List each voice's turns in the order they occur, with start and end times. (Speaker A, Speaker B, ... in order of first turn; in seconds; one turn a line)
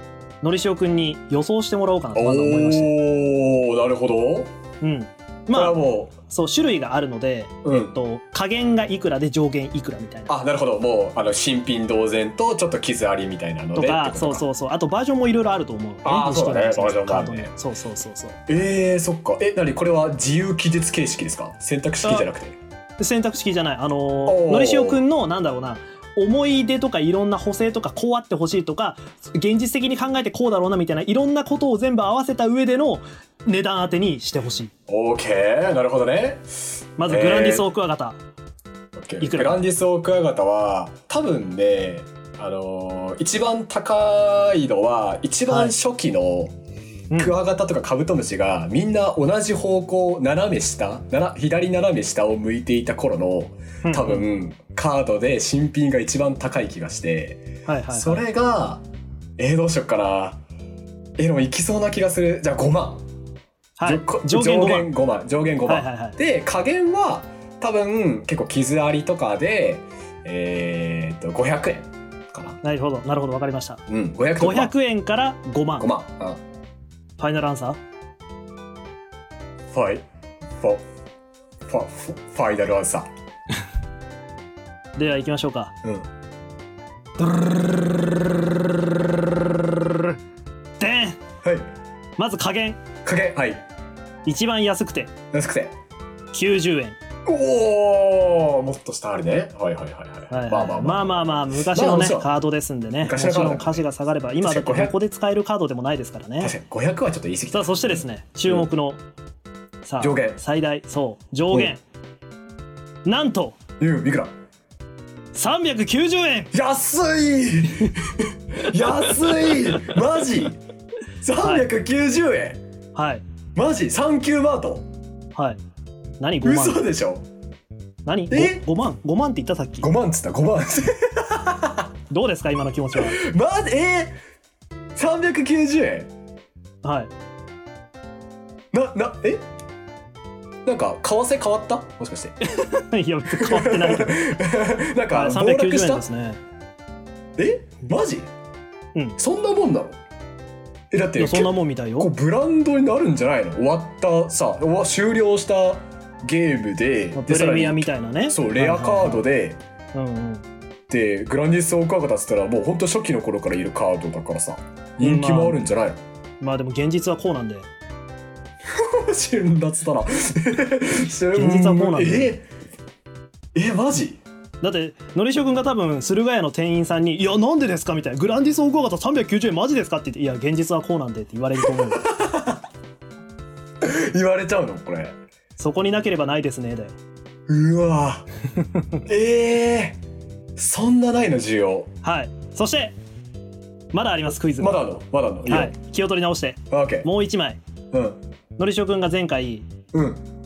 Speaker A: 0.4-2.9
Speaker B: 2.1-4.5
Speaker A: 4.8-10.3
Speaker B: 5.5-6.1
Speaker B: 7.6-8.0
Speaker B: 10.3-14.4
Speaker A: 13.8-18.4
Speaker B: 16.0-17.5
Speaker B: 18.5-22.6
Speaker A: 23.0-34.7
Speaker B: 24.2-25.0
Speaker B: 34.9-36.5
Speaker A: 37.0-38.2
Speaker B: 37.0-37.7
Speaker B: 38.9-46.5
Speaker A: 39.2-39.6
Speaker A: 45.5-45.7
Speaker B: 47.1-58.8
Speaker A: 53.8-54.2
Speaker A: 57.6-58.2
Speaker B: 59.4-60.4
Speaker B: 61.2-63.0
Speaker A: 63.8-64.9
Speaker B: 63.8-72.6
Speaker A: 65.7-66.2
Speaker A: 72.6-73.8
Speaker B: 73.9-74.7
Speaker A: 74.4-75.9
Speaker B: 75.8-76.4
Speaker A: 77.2-77.8
Speaker B: 79.7-80.0
Speaker B: 80.6-80.8
Speaker B: 81.7-83.1
Speaker A: 85.0-85.7
Speaker B: 85.8-86.1
Speaker A: 90.8-91.2
Speaker B: 91.4-91.7
Speaker A: 92.2-92.8
Speaker B: 93.0-93.6
Speaker A: 94.2-95.1
Speaker B: 95.3-95.7
Speaker A: 96.3-97.0
Speaker B: 97.2-102.3
Speaker A: 100.3-106.5
Speaker B: 103.0-103.8
Speaker B: 104.4-105.0
Speaker B: 106.4-108.7
Speaker A: 107.5-109.0
Speaker A: 109.8-111.8
Speaker B: 110.0-110.4
Speaker A: 113.0-113.6
Speaker B: 113.8-114.3
Speaker A: 115.3-116.5
Speaker B: 116.5-120.6
Speaker B: 121.2-122.6
Speaker A: 121.4-121.7
Speaker A: 122.9-123.2
Speaker B: 123.5-124.8
Speaker A: 125.3-125.6
Speaker A: 126.2-126.8
Speaker B: 126.4-127.2
Speaker A: 128.0-129.9
Speaker B: 128.3-128.6
Speaker B: 129.8-131.9
Speaker A: 132.1-133.2
Speaker B: 132.9-134.1
Speaker B: 134.9-136.1
Speaker A: 136.8-137.1
Speaker B: 138.7-139.4
Speaker B: 140.6-142.3
Speaker A: 142.4-144.3
Speaker B: 143.3-146.0
Speaker A: 145.1-146.4
Speaker B: 147.4-148.3
Speaker B: 149.2-150.0
Speaker B: 150.9-159.6
Speaker A: 151.2-152.1
Speaker A: 157.1-159.2
Speaker A: 159.9-160.4
Speaker B: 160.9-166.0
Speaker A: 165.0-165.6
Speaker A: 166.4-167.7
Speaker B: 168.7-172.4
Speaker A: 171.3-172.3
Speaker B: 173.5-174.2
Speaker A: 174.6-182.1
Speaker B: 181.7-182.6
Speaker B: 183.8-185.1
Speaker A: 185.6-186.9
Speaker B: 187.5-188.3
Speaker B: 189.0-190.0
Speaker B: 190.6-191.9
Speaker A: 192.0-192.9
Speaker A: 193.9-194.8
Speaker B: 194.6-195.7
Speaker A: 195.4-197.6
Speaker B: 196.7-197.1
Speaker B: 197.9-198.2
Speaker A: 198.6-199.7
Speaker B: 199.9-200.2